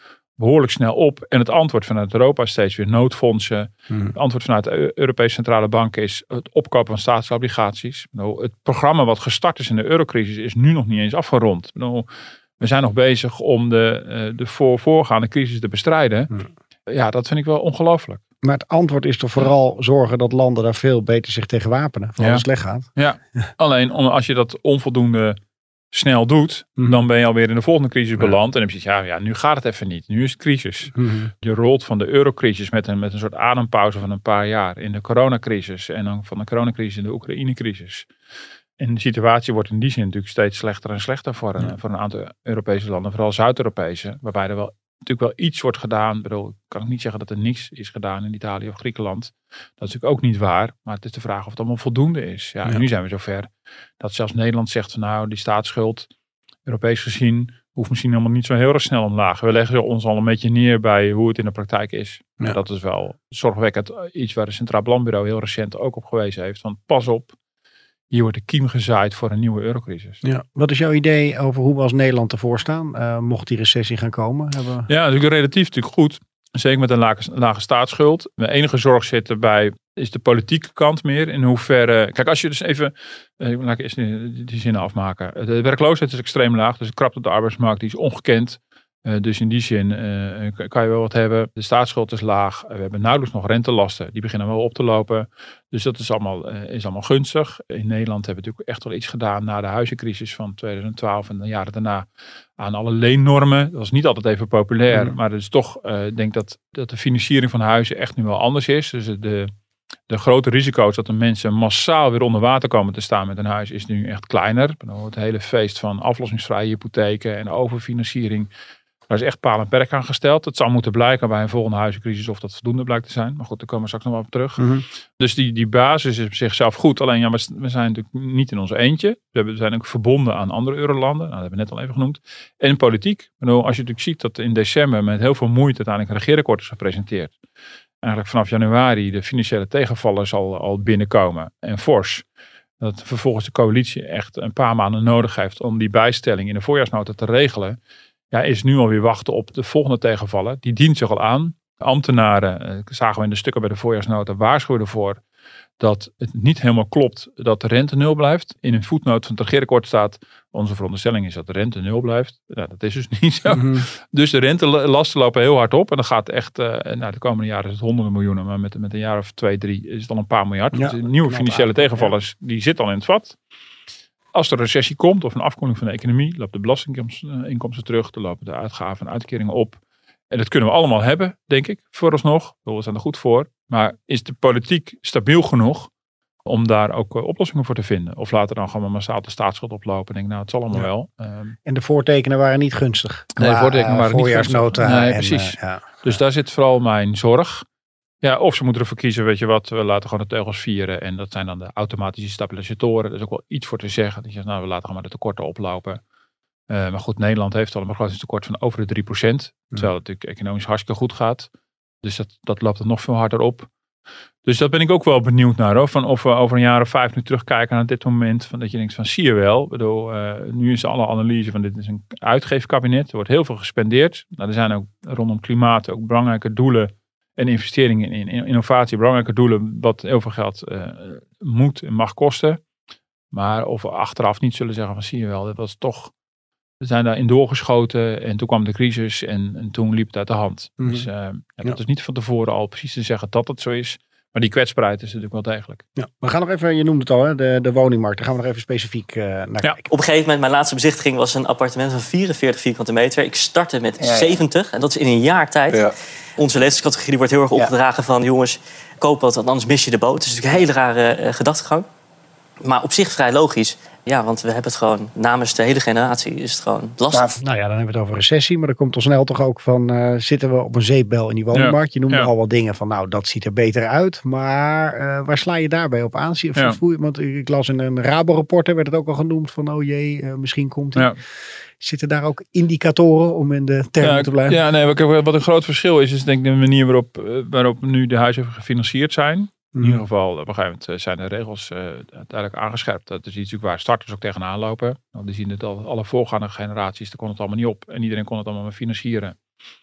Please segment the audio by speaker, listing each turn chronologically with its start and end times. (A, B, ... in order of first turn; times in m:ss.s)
0:00.4-0:12.1 A
0:03.9-0:04.2 B
0:12.6-0:16.3 A
0:16.9-0:18.2 A
0:18.4-0:23.5 B
0:22.2-0:25.4 A
0:25.9-0:38.1 A
0:30.9-0:31.3 B
0:38.8-0:53.5 A
0:54.0-0:56.1 A
0:56.7-1:07.4 A
1:08.1-1:10.2 A
1:10.2-1:14.9 B
1:14.9-1:42.0 A
1:42.6-1:49.5 A
1:50.1-1:58.5 A
1:59.1-2:17.4 A
2:04.6-2:04.9 B
2:18.0-2:22.2 A
2:22.8-2:27.8 A
2:28.3-2:35.2 A
2:35.8-2:53.4 A
2:43.5-2:43.9 B
2:50.7-2:52.1 B
2:54.3-2:59.8 A
3:00.3-3:05.9 A
3:06.4-3:11.6 A
3:11.6-3:16.2 B
3:13.4-3:17.6 A
3:18.2-3:26.0 A
3:26.7-3:31.5 A
3:32.0-3:33.7 A
3:34.4-3:52.6 A
3:53.3-3:56.1 A
3:56.8-4:05.8 A
4:00.8-4:01.1 B
4:06.0-4:09.8 B
4:09.9-4:21.9 C
4:22.6-4:27.4 C
4:27.4-4:41.1 B
4:31.5-4:32.3 A
4:41.8-4:44.6 B
4:44.0-4:59.4 A
4:49.7-4:50.0 B